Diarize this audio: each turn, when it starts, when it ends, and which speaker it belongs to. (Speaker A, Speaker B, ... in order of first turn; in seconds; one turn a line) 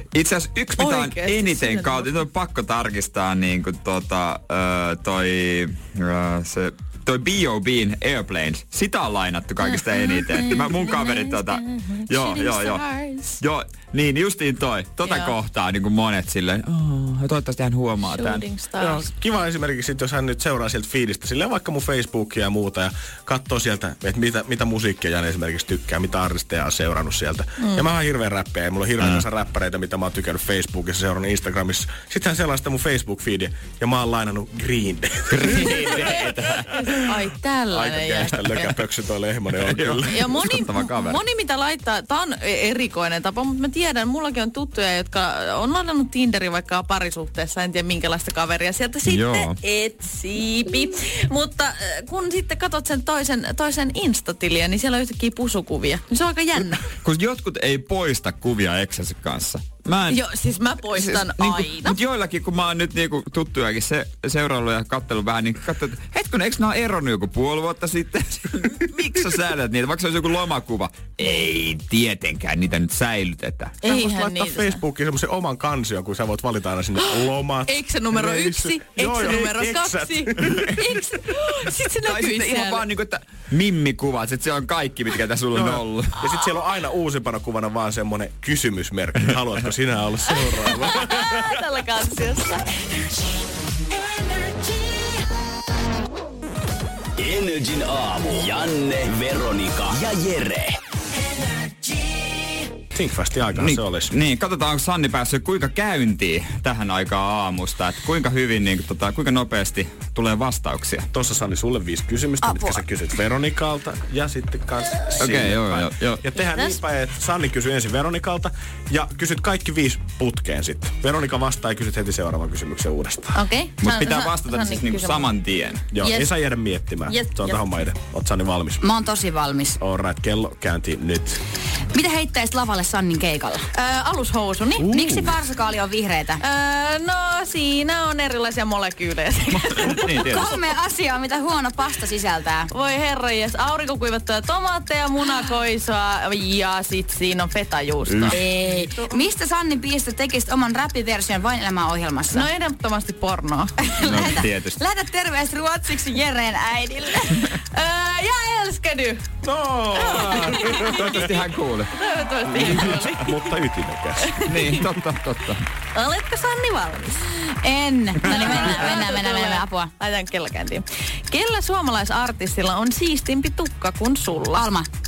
Speaker A: 0.1-12.9
Speaker B: 0.8-2.2
Speaker B: 9.6-13.4
Speaker A: 13.4-18.4
Speaker B: 15.0-15.3
Speaker B: 18.1-19.1
Speaker C: 18.8-37.0
Speaker A: 35.3-37.0
Speaker B: 36.9-38.7
Speaker C: 37.7-40.4
Speaker A: 39.6-41.2
Speaker B: 40.1-56.9
Speaker A: 49.0-49.6
Speaker A: 57.0-60.2
Speaker B: 60.1-62.0
Speaker A: 60.9-73.8
Speaker B: 73.8-74.8
Speaker C: 73.8-80.9
Speaker B: 77.0-82.9
Speaker A: 82.0-86.2
Speaker C: 85.5-91.5
Speaker B: 90.7-92.7
Speaker B: 94.6-95.0
Speaker D: 97.2-100.8
Speaker C: 102.9-104.2
Speaker A: 103.6-111.1
Speaker C: 111.1-123.4
Speaker E: 112.4-112.8
Speaker A: 115.2-116.2
Speaker B: 116.4-116.8
Speaker B: 123.3-125.3
Speaker A: 123.8-125.9
Speaker C: 125.9-128.9
Speaker B: 126.0-126.3
Speaker B: 127.1-127.4
Speaker E: 128.8-129.8
Speaker C: 129.8-131.4
Speaker E: 131.9-133.7
Speaker B: 133.7-135.0
Speaker C: 134.8-135.4
Speaker E: 134.9-136.4
Speaker B: 136.4-140.5
Speaker A: 139.5-140.6
Speaker E: 140.1-142.7
Speaker B: 142.7-148.4
Speaker A: 148.1-148.4
Speaker E: 148.3-152.5
Speaker B: 152.3-154.3
Speaker E: 153.9-157.5
Speaker A: 154.0-154.8
Speaker B: 157.6-159.2
Speaker C: 159.4-161.3
Speaker B: 159.9-161.3
Speaker A: 160.4-161.9
Speaker B: 161.9-163.6
Speaker C: 162.5-164.3
Speaker A: 162.6-162.9
Speaker B: 164.2-164.9
Speaker A: 164.5-165.7
Speaker B: 165.9-167.4
Speaker E: 167.5-169.9
Speaker A: 168.2-168.9
Speaker B: 168.2-174.7
Speaker E: 174.5-174.9